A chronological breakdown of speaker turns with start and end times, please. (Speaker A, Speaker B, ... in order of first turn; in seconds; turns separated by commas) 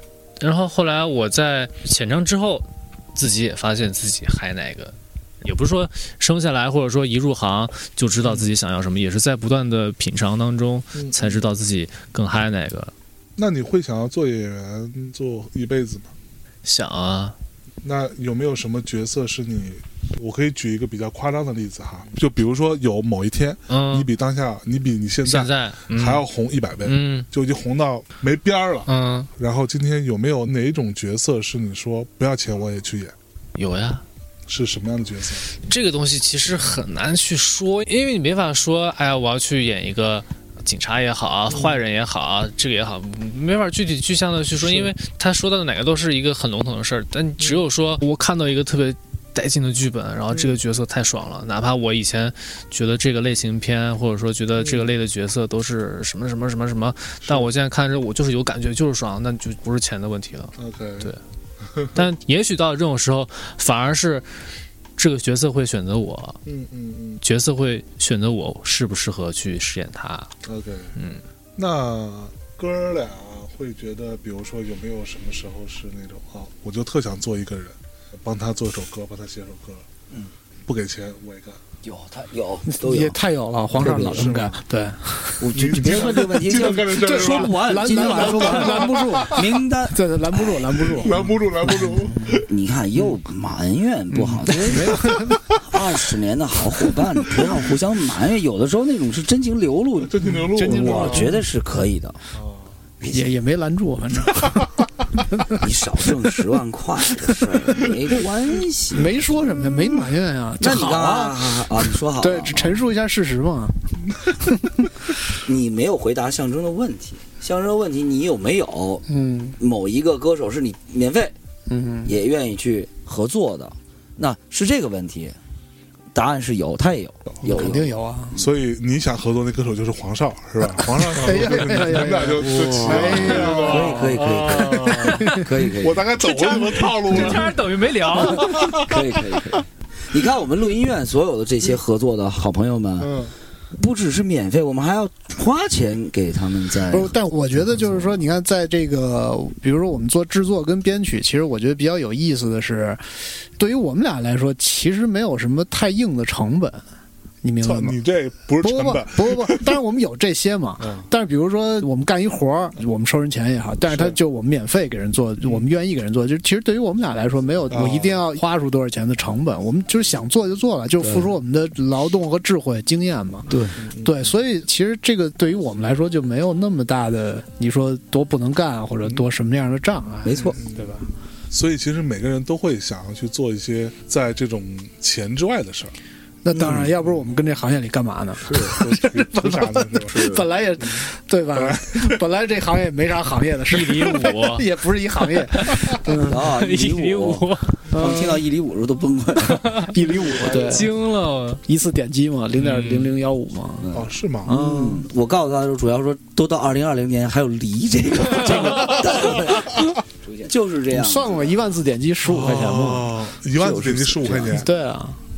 Speaker A: 0.4-12.9, Speaker B: 8.2-8.5, Speaker B: 10.9-11.4, Speaker B: 13.4-16.1, Speaker A: 16.6-17.4, Speaker B: 17.8-33.1, Speaker A: 23.7-24.1, Speaker A: 25.2-26.2, Speaker A: 26.8-27.3, Speaker A: 28.9-29.3, Speaker A: 33.5-34.0, Speaker B: 34.5-35.5, Speaker A: 35.6-61.2, Speaker B: 41.5-41.8, Speaker B: 44.6-44.9, Speaker B: 54.6-54.9, Speaker B: 57.2-57.5, Speaker B: 60.5-62.0, Speaker A: 61.9-64.3, Speaker A: 65.0-66.4, Speaker B: 66.4-67.2, Speaker A: 67.2-70.3, Speaker B: 70.4-70.9, Speaker A: 70.9-71.2, Speaker B: 71.5-79.8, Speaker B: 80.7-81.6, Speaker C: 81.8-83.2, Speaker D: 82.7-92.4, Speaker B: 83.7-84.6, Speaker C: 83.8-84.3, Speaker C: 85.4-91.2, Speaker B: 85.5-89.4, Speaker B: 90.9-92.5, Speaker C: 92.5-102.2, Speaker B: 94.1-94.9, Speaker D: 94.5-95.5, Speaker B: 100.0-101.4, Speaker D: 100.5-101.4, Speaker B: 102.3-102.7, Speaker C: 103.0-103.3, Speaker D: 103.1-104.8, Speaker D: 105.3-105.6, Speaker C: 105.6-109.1, Speaker D: 108.9-113.8, Speaker C: 110.6-112.7, Speaker C: 115.4-119.0, Speaker D: 119.1-119.6, Speaker C: 119.6-121.3, Speaker D: 121.7-122.2, Speaker C: 122.0-125.3, Speaker C: 126.1-128.5, Speaker D: 127.4-128.3, Speaker B: 128.3-137.6, Speaker D: 130.8-135.5, Speaker C: 132.4-136.0, Speaker A: 136.2-138.5, Speaker B: 138.1-139.2, Speaker C: 138.2-143.2, Speaker B: 143.0-143.3, Speaker C: 143.7-147.1, Speaker D: 146.9-153.0, Speaker D: 153.6-156.8, Speaker D: 157.4-158.0, Speaker B: 157.6-159.8, Speaker D: 158.6-181.1, Speaker B: 160.8-161.1, Speaker B: 163.9-164.2, Speaker B: 167.7-168.2, Speaker C: 173.5-173.8, Speaker B: 173.8-174.3, Speaker C: 180.2-180.6, Speaker B: 180.4-185.9, Speaker D: 186.4-196.3, Speaker B: 186.6-186.9, Speaker C: 188.5-188.8, Speaker B: 188.5-191.0, Speaker C: 190.1-190.5, Speaker B: 191.5-192.2, Speaker A: 193.7-194.7, Speaker A: 195.3-197.9, Speaker C: 195.9-200.9, Speaker D: 197.9-198.4, Speaker A: 199.4-199.9, Speaker D: 199.9-200.9, Speaker A: 200.6-201.6, Speaker D: 201.7-203.9, Speaker A: 202.6-203.1, Speaker C: 203.8-211.5, Speaker B: 203.9-204.5, Speaker D: 204.4-205.1, Speaker D: 210.9-213.1, Speaker B: 212.2-214.7, Speaker C: 213.5-214.6, Speaker D: 214.5-215.2